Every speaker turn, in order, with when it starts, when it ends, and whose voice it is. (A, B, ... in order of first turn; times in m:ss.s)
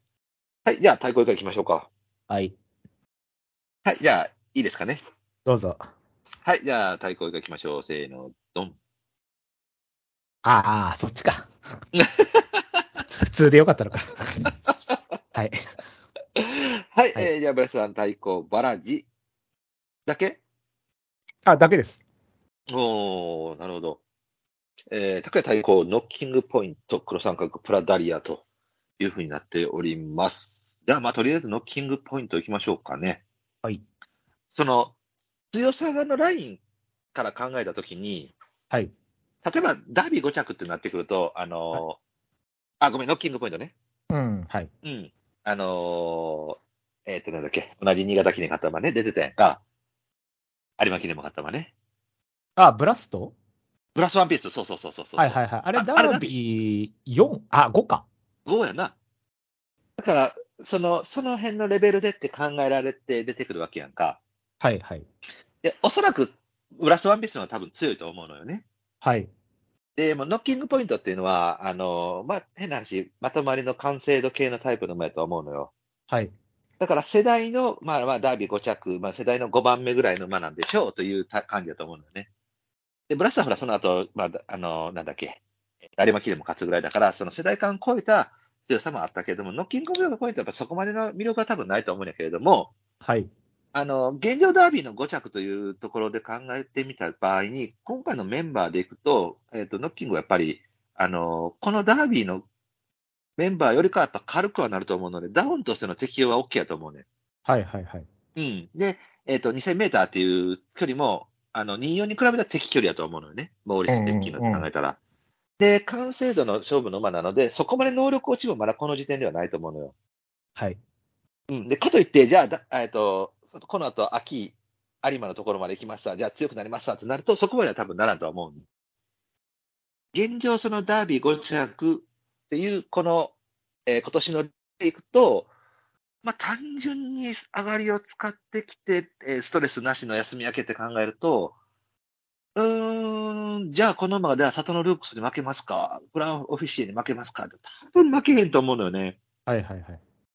0:00.6-0:01.9 A
0:02.3-0:02.5 B
0:03.8-0:05.0 A
0:05.4-0:05.8 B
0:06.4-0:08.8 A
0:10.4-0:11.5 B
0:11.9-0:12.6 A
0:13.0-0:14.5 B
0:16.4-0:19.0 A
0:20.0-0:20.4 A
0:21.4-0:22.0 B
0:22.7-0:24.0 A
0:24.9-0:28.4 A
0:29.0-0:33.2 A
0:34.5-0:34.9 A
0:35.5-0:36.6 A
0:37.1-0:38.3 A
0:39.4-0:42.0 A
0:42.8-0:43.7 A
0:44.1-0:44.7 B
0:44.8-0:49.6 A
0:50.8-0:51.7 A
0:52.6-0:53.3 B
0:53.9-0:56.3 A
0:55.2-0:58.0 B
0:58.4-0:58.9 A
1:00.0-1:04.2 A
1:04.6-1:05.0 B
1:05.6-1:08.6 A
1:09.0-1:09.3 B
1:10.0-1:15.7 A
1:16.8-1:22.3 A
1:23.1-1:25.4 A
1:26.0-1:32.7 A
1:33.0-1:33.3 B
1:33.7-1:42.4 A
1:43.4-1:47.0 A
1:47.4-1:48.1 B
1:48.4-1:55.0 A
1:53.9-1:54.7 B
1:55.6-1:59.9 A
2:01.5-2:08.6 A
2:10.1-2:13.3 A
2:13.9-2:15.5 A
2:16.2-2:21.5 A
2:22.6-2:29.2 A
2:29.5-2:30.0 B